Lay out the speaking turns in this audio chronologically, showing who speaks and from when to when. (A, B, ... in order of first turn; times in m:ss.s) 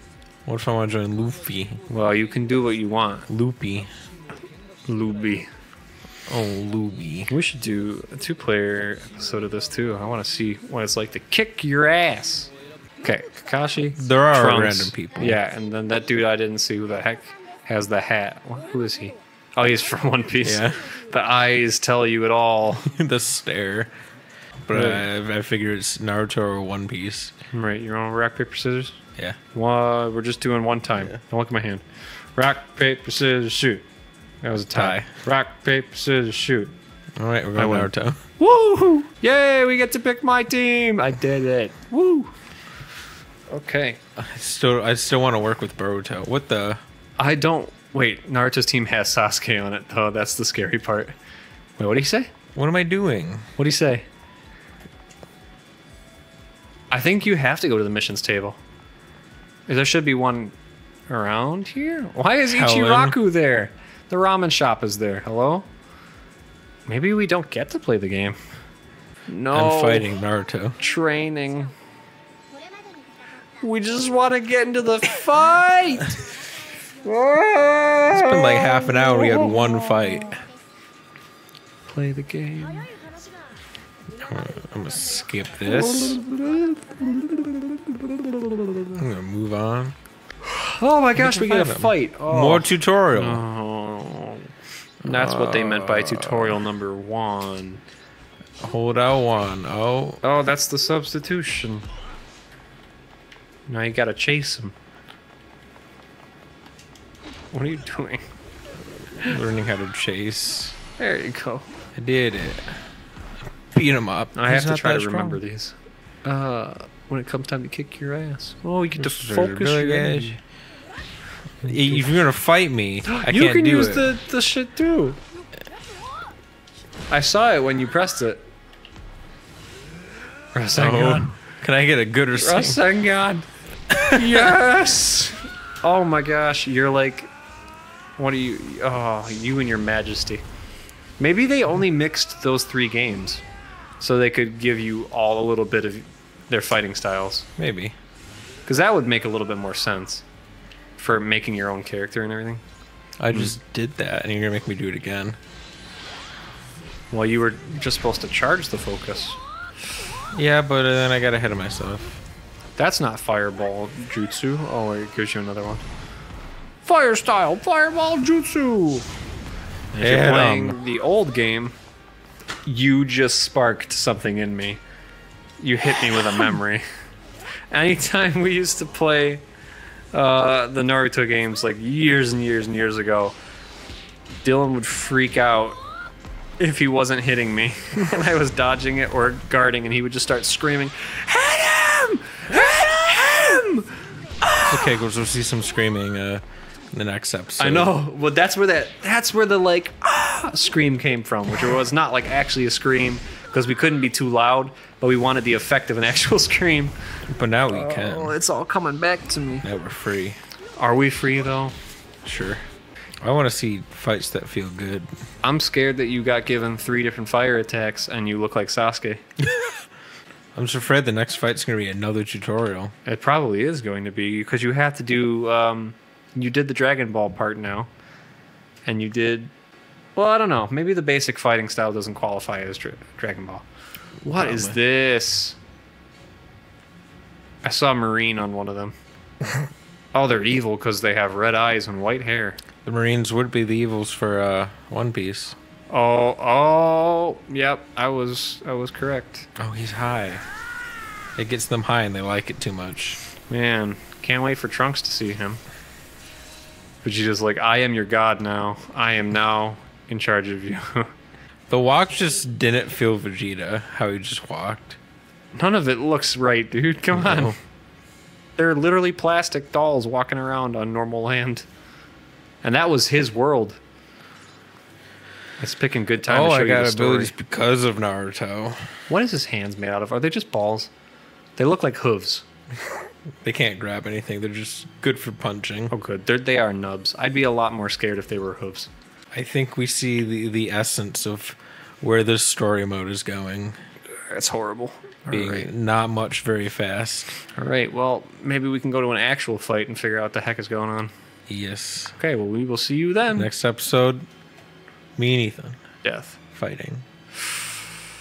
0:00.4-0:01.8 A
0:01.9-0:03.3 B
0:03.3-0:03.9 A
0:04.8-0:05.5 B
0:06.3-0:07.3 A
0:07.3-0:12.5 B
0:13.0-0:22.9 B
0:14.0-0:15.4 A
0:20.4-0:20.9 A
0:22.8-0:23.9 A
0:24.7-0:27.3 A
0:24.7-0:25.0 B
0:27.5-0:29.0 B
0:29.5-0:31.8 B
0:32.3-0:33.8 B
0:34.4-0:36.7 B
0:34.7-0:35.1 A
0:37.2-0:38.2 A
0:37.6-0:42.3 B
0:43.5-0:44.0 B
0:44.2-0:46.8 A
0:47.2-0:51.1 B
0:51.8-0:52.3 B
0:52.5-0:53.5 A
0:53.6-0:54.0 B
0:56.9-0:58.6 B
0:59.7-1:00.5 B
1:01.1-1:05.7 B
1:02.5-1:03.2 A
1:06.9-1:08.4 B
1:09.3-1:10.1 B
1:09.5-1:10.8 A
1:10.8-1:11.7 B
1:13.6-1:16.2 B
1:17.0-1:19.3 B
1:18.1-1:20.4 A
1:21.9-1:22.9 B
1:24.2-1:26.2 A
1:25.9-1:28.9 B
1:28.9-1:29.9 A
1:30.4-1:34.5 B
1:31.2-1:33.4 A
1:35.0-1:36.6 A
1:35.0-1:37.8 B
1:38.6-1:40.2 A
1:40.2-1:41.8 B
1:43.7-1:44.7 B
1:47.5-1:48.2 B
1:49.2-1:50.8 A
1:51.0-1:51.7 B
1:52.0-1:52.8 A
1:53.7-1:55.4 A
1:54.3-2:00.4 B
1:59.0-2:00.4 A
2:01.6-2:04.1 A
2:01.6-2:02.0 B
2:03.0-2:05.2 B
2:07.1-2:08.4 B
2:10.5-2:11.3 B
2:10.8-2:12.8 A
2:12.4-2:13.5 B
2:13.9-2:14.5 A
2:14.1-2:17.3 B
2:18.2-2:20.4 B
2:21.2-2:23.4 B
2:24.0-2:27.5 B
2:27.6-2:27.9 A
2:28.6-2:30.2 B
2:31.0-2:32.6 B
2:33.2-2:35.4 A
2:37.1-2:39.4 B
2:40.3-2:42.2 A
2:42.8-2:45.8 B
2:46.8-2:49.1 B
2:49.9-2:51.8 B
2:50.0-2:50.8 A
2:52.6-2:54.8 B
2:55.6-2:56.8 B
2:57.7-2:59.4 B
3:00.1-3:03.4 B
3:04.4-3:05.8 B
3:06.6-3:14.8 B
3:14.6-3:18.0 A
3:17.6-3:26.9 B
3:27.3-3:28.4 A
3:27.7-3:29.6 B
3:29.6-3:30.4 A
3:30.8-3:31.7 B
3:32.2-3:32.6 A
3:33.2-3:35.1 A
3:35.4-3:39.2 B
3:40.5-3:42.9 A
3:43.0-3:47.9 B
3:48.8-3:49.5 B
3:50.2-3:53.6 B
3:54.2-3:55.6 B
3:54.3-3:54.8 A
3:57.6-3:58.9 B
4:00.1-4:02.6 B
4:02.8-4:05.6 A
4:05.9-4:09.5 B
4:09.6-4:10.4 A
4:11.4-4:13.2 A
4:13.5-4:15.6 B
4:17.0-4:21.1 B
4:21.7-4:25.0 A
4:25.5-4:27.6 B
4:27.1-4:27.6 A
4:28.6-4:31.7 B
4:32.6-4:33.8 B
4:35.6-4:37.3 B
4:36.2-4:38.9 A
4:39.1-4:40.9 B
4:41.6-4:42.4 B
4:42.9-4:45.9 A
4:45.9-4:48.9 B
4:49.3-4:53.8 A
4:54.3-4:55.7 B
4:55.3-4:57.3 A
4:57.5-5:01.1 B
5:01.5-5:02.2 A
5:02.2-5:03.5 B
5:03.3-5:04.3 A
5:05.2-5:05.8 A
5:06.0-5:06.4 B
5:06.5-5:07.0 A
5:07.4-5:07.8 B